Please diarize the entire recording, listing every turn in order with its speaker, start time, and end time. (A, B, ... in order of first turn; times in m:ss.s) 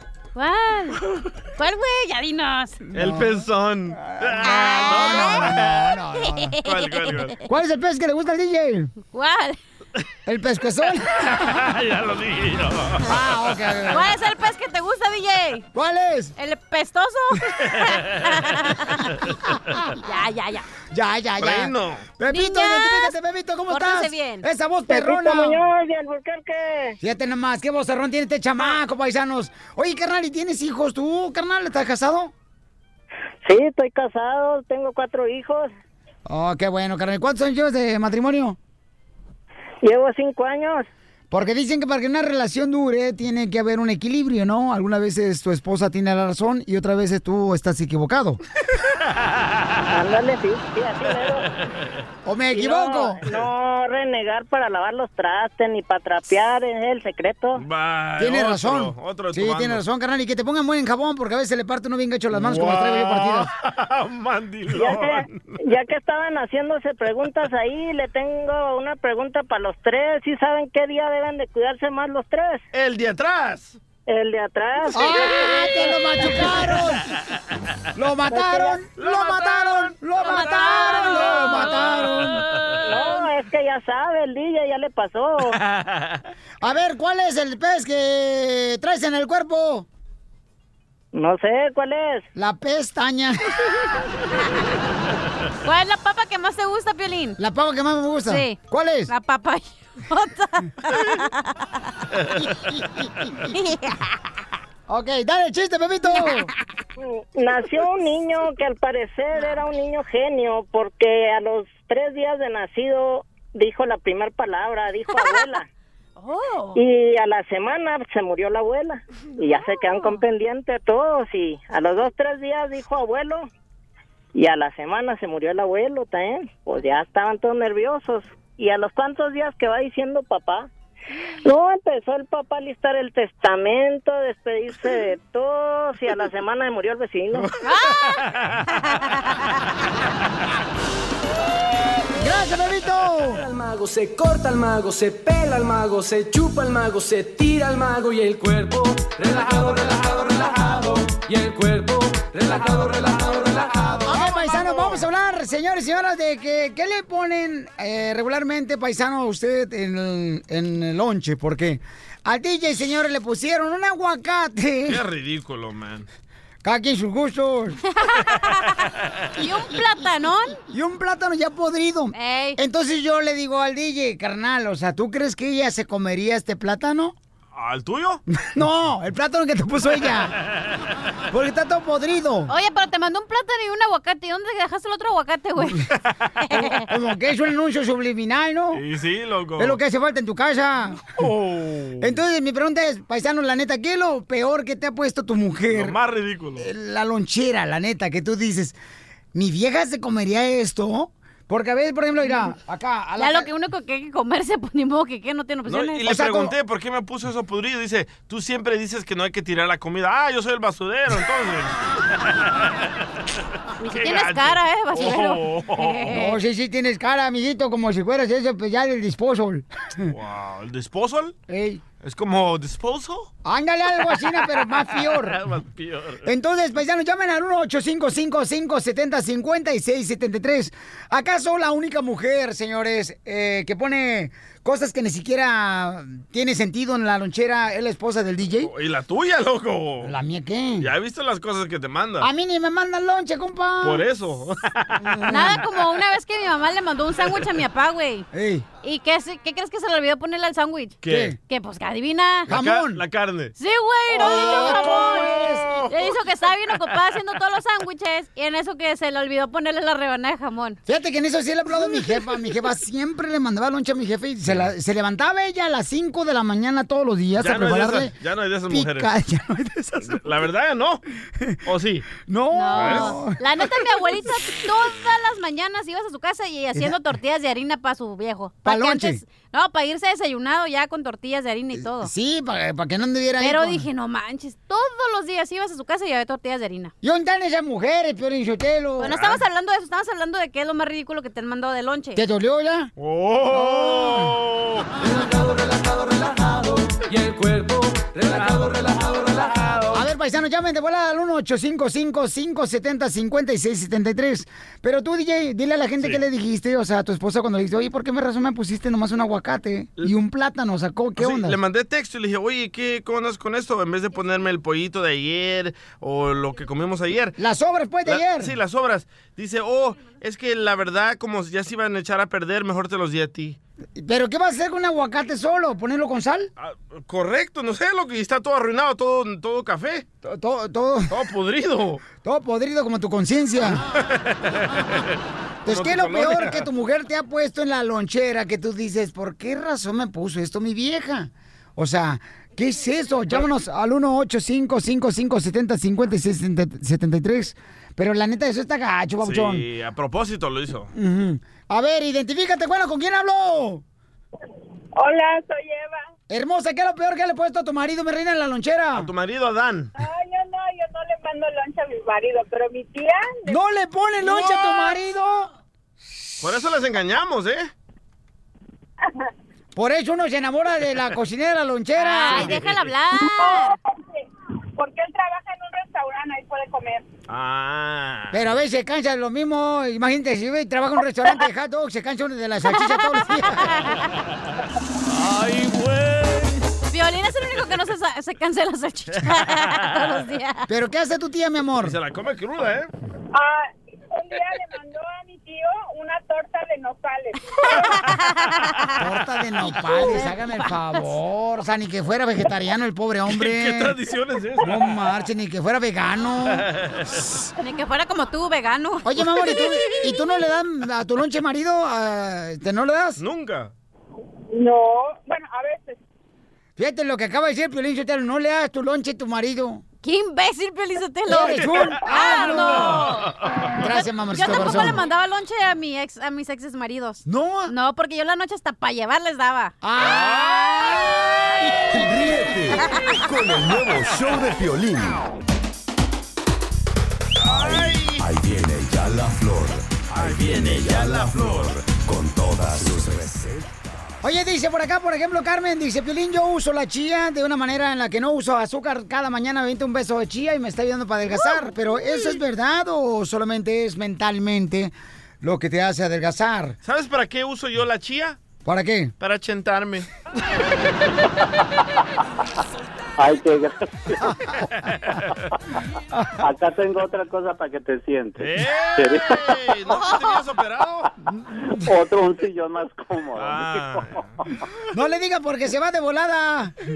0:00.3-0:01.0 A
0:01.6-0:02.8 A
0:02.9-0:03.4 B
0:02.9-0:05.9 C
0:04.0-0:06.6 B
0:04.4-0:05.5 A
0:06.3-0:07.4 A
0:06.6-0:07.3 C
0:07.4-0:08.9 B
0:09.0-0:09.6 A
0:10.2-0:11.3 B
0:11.2-0:13.1 C
0:13.0-0:14.1 B
0:13.9-0:15.7 A
0:15.7-0:16.3 B
0:16.4-0:19.1 A
0:19.5-0:19.9 B
0:20.0-0:20.7 A
0:20.9-0:25.6 B
0:21.4-0:22.1 C
0:22.3-0:23.1 A
0:23.7-0:24.4 A
0:24.9-0:27.0 D
0:27.0-0:32.3 B
0:33.4-0:35.7 D
0:36.2-0:38.6 B
0:39.8-0:40.9 D
0:41.3-0:48.4 B
0:49.9-0:51.5 D
0:52.2-0:53.2 B
0:52.5-0:57.6 D
0:57.6-0:59.8 C
0:58.2-1:03.5 B
1:02.3-1:05.6 C
1:04.7-1:12.6 D
1:12.7-1:13.8 C
1:14.1-1:16.4 D
1:14.9-1:17.1 B
1:17.9-1:22.4 B
1:18.3-1:18.8 D
1:19.0-1:19.9 C
1:20.2-1:22.3 A
1:22.8-1:25.6 D
1:25.6-1:26.2 C
1:26.6-1:29.8 B
1:31.1-1:32.2 D
1:32.3-1:33.5 B
1:35.6-1:37.4 A
1:37.4-1:39.1 B
1:38.2-1:41.3 A
1:42.6-1:43.0 B
1:43.5-1:44.0 A
1:44.9-1:46.5 B
1:46.1-1:46.5 A
1:47.0-1:55.7 D
1:56.2-1:56.8 A
1:56.7-2:03.5 D
1:59.5-2:00.2 A
2:04.3-2:10.7 D
2:11.4-2:17.5 D
2:17.6-2:18.2 A
2:22.2-2:23.4 B
2:23.3-2:34.1 E
2:34.0-2:45.0 B
2:44.9-2:46.1 C
2:46.6-2:47.8 B
2:48.0-2:50.6 A
2:50.7-2:57.1 B
2:52.1-2:52.6 A
2:57.5-2:58.2 C
2:58.4-3:00.4 B
3:01.3-3:02.5 B
3:02.5-3:05.8 A
3:06.4-3:06.9 A
3:06.6-3:08.8 B
3:08.7-3:09.8 C
3:09.6-3:11.0 B
3:11.2-3:12.1 C
3:12.0-3:16.0 B
3:15.7-3:16.7 C
3:16.6-3:18.8 B
3:19.3-3:23.5 B
3:23.2-3:26.0 A
3:25.6-3:32.6 C
3:26.0-3:26.5 B
3:33.8-3:36.4 A
3:33.8-3:36.2 C
3:36.1-3:40.1 B
3:40.1-3:41.3 C
3:41.5-3:41.8 B
3:42.0-3:43.3 C
3:43.4-3:45.4 B
3:44.5-3:46.2 C
3:46.2-3:58.7 B
3:58.6-4:00.1 C
4:00.0-4:00.9 B
4:00.8-4:02.3 C
4:02.2-4:04.0 B
4:03.8-4:05.3 C
4:05.0-4:05.6 B
4:05.3-4:08.3 A
4:08.3-4:08.7 B
4:08.8-4:12.5 A
4:11.0-4:11.3 C
4:11.1-4:11.3 B
4:12.5-4:13.0 B
4:12.5-4:13.5 C
4:13.6-4:20.8 A
4:14.1-4:16.1 C
4:14.2-4:15.8 B
4:20.8-4:28.1 B
4:27.4-4:29.1 C
4:28.7-4:30.2 B
4:30.0-4:31.0 C
4:31.6-4:32.2 C
4:32.2-4:33.4 B
4:32.5-4:42.1 A
4:32.7-4:33.2 C
4:38.6-4:39.2 B
4:41.7-4:43.9 B
4:43.4-4:46.9 A
4:47.0-4:49.2 B
4:49.0-4:52.2 A
4:49.1-4:49.4 C
4:52.1-4:52.9 B
4:53.0-4:54.9 C
4:53.5-4:54.3 B
4:55.0-5:00.0 E
4:59.9-5:11.6 B
5:11.2-5:17.4 C
5:17.4-5:18.5 B
5:18.0-5:23.6 C
5:24.0-5:26.5 B
5:26.6-5:30.0 C
5:30.2-5:31.2 B
5:31.1-5:32.0 C
5:32.2-5:33.8 B
5:33.7-5:35.1 C
5:35.6-5:49.6 B
5:35.7-5:36.6 C
5:49.2-5:50.9 C
5:50.9-5:53.8 B
5:54.9-5:56.0 F
5:56.3-5:59.1 B
5:58.9-5:59.9 C
6:00.0-6:03.6 F
6:03.5-6:05.5 B
6:04.3-6:04.7 C
6:06.4-6:07.7 C
6:09.0-6:09.3 F
6:09.7-6:12.6 B
6:12.0-6:13.7 A
6:12.3-6:12.9 C
6:13.3-6:14.2 F
6:14.8-6:17.0 F
6:17.3-6:18.5 C
6:18.3-6:23.8 B
6:22.6-6:24.0 A
6:25.1-6:26.7 C
6:26.9-6:30.7 A
6:29.5-6:30.0 C
6:30.7-6:32.0 B
6:31.8-6:32.9 C
6:33.3-6:37.8 F
6:37.6-6:39.0 A
6:39.0-6:44.0 B
6:39.6-6:41.1 A
6:43.3-6:44.9 C
6:44.6-6:46.7 B
6:46.4-6:47.2 C
6:47.6-6:49.9 A
6:49.0-6:53.2 B
6:53.2-6:53.7 C
6:54.5-6:56.0 F
6:56.8-6:59.8 B
7:00.0-7:03.3 A
7:01.3-7:03.0 B
7:01.4-7:03.2 C
7:03.8-7:05.0 B
7:03.8-7:09.7 A
7:07.2-7:07.7 B
7:09.8-7:11.5 B
7:10.0-7:10.6 C
7:11.9-7:15.2 G
7:17.4-7:18.3 C
7:17.4-7:23.7 G
7:20.1-7:21.8 C
7:24.2-7:36.8 B
7:36.8-7:38.4 C
7:38.6-7:39.1 B
7:39.2-7:40.1 C
7:43.2-7:44.3 H
7:46.4-7:49.6 H
7:48.4-7:51.1 C
7:49.9-7:50.4 A
7:51.7-7:54.2 H
7:53.4-7:54.2 C
7:54.9-7:56.7 B